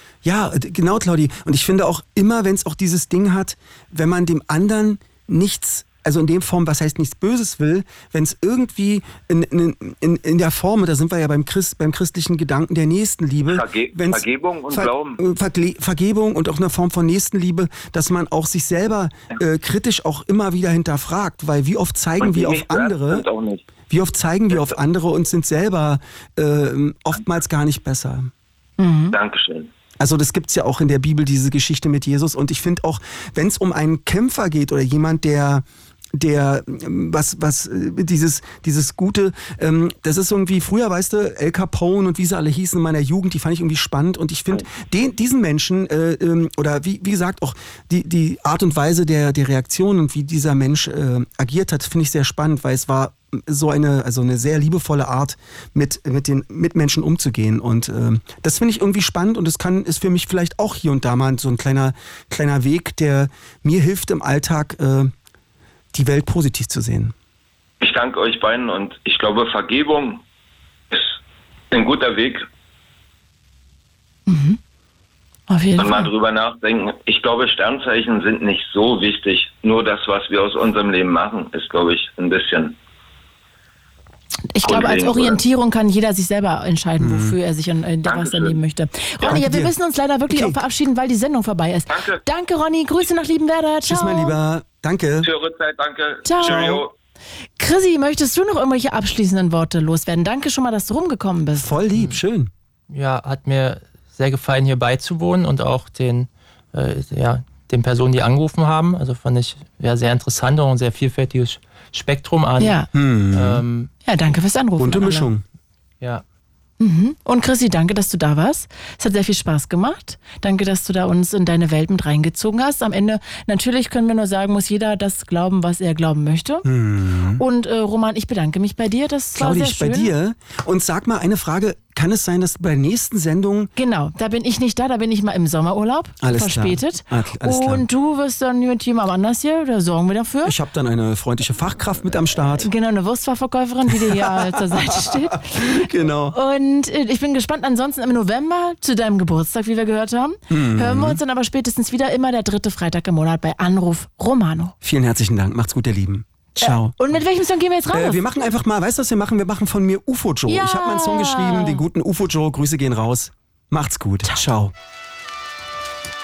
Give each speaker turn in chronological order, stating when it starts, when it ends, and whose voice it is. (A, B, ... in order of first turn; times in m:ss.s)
0:00.2-0:23.2 A
0:13.5-0:15.2 B
0:22.2-0:23.7 B
0:23.9-0:28.3 A
0:24.5-0:24.8 B
0:28.8-0:29.2 C
0:29.1-0:29.7 B
0:30.0-0:35.6 A
0:36.2-1:05.1 A
1:05.9-1:07.1 A
1:07.8-1:10.2 B
1:10.9-1:11.2 B
1:11.7-1:12.4 B
1:14.3-1:14.6 C
1:15.5-1:16.1 C
1:15.8-1:22.8 B
1:24.5-1:34.4 C
1:24.6-1:25.4 B
1:27.0-1:27.4 A
1:28.0-1:28.6 B
1:29.2-1:29.8 A
1:30.3-1:30.6 A
1:31.9-1:32.2 B
1:33.9-1:35.3 A
1:35.2-1:36.9 B
1:36.2-1:36.8 C
1:36.5-1:36.8 A
1:37.6-1:41.7 C
1:41.6-1:42.5 A
1:42.9-1:53.9 D
1:52.6-1:52.9 C
1:52.9-1:53.6 A
1:54.1-1:55.3 C
1:54.8-1:55.4 A
1:56.8-2:06.7 C
2:06.6-2:07.4 A
2:07.4-2:10.1 C
2:09.4-2:13.7 A
2:13.8-2:20.6 C
2:16.2-2:17.9 A
2:20.4-2:22.7 A
2:22.6-2:34.8 C
2:24.1-2:26.4 A
2:30.5-2:31.2 A
2:34.8-2:37.0 A
2:36.6-2:38.2 C
2:37.9-2:44.7 A
2:40.5-2:41.8 C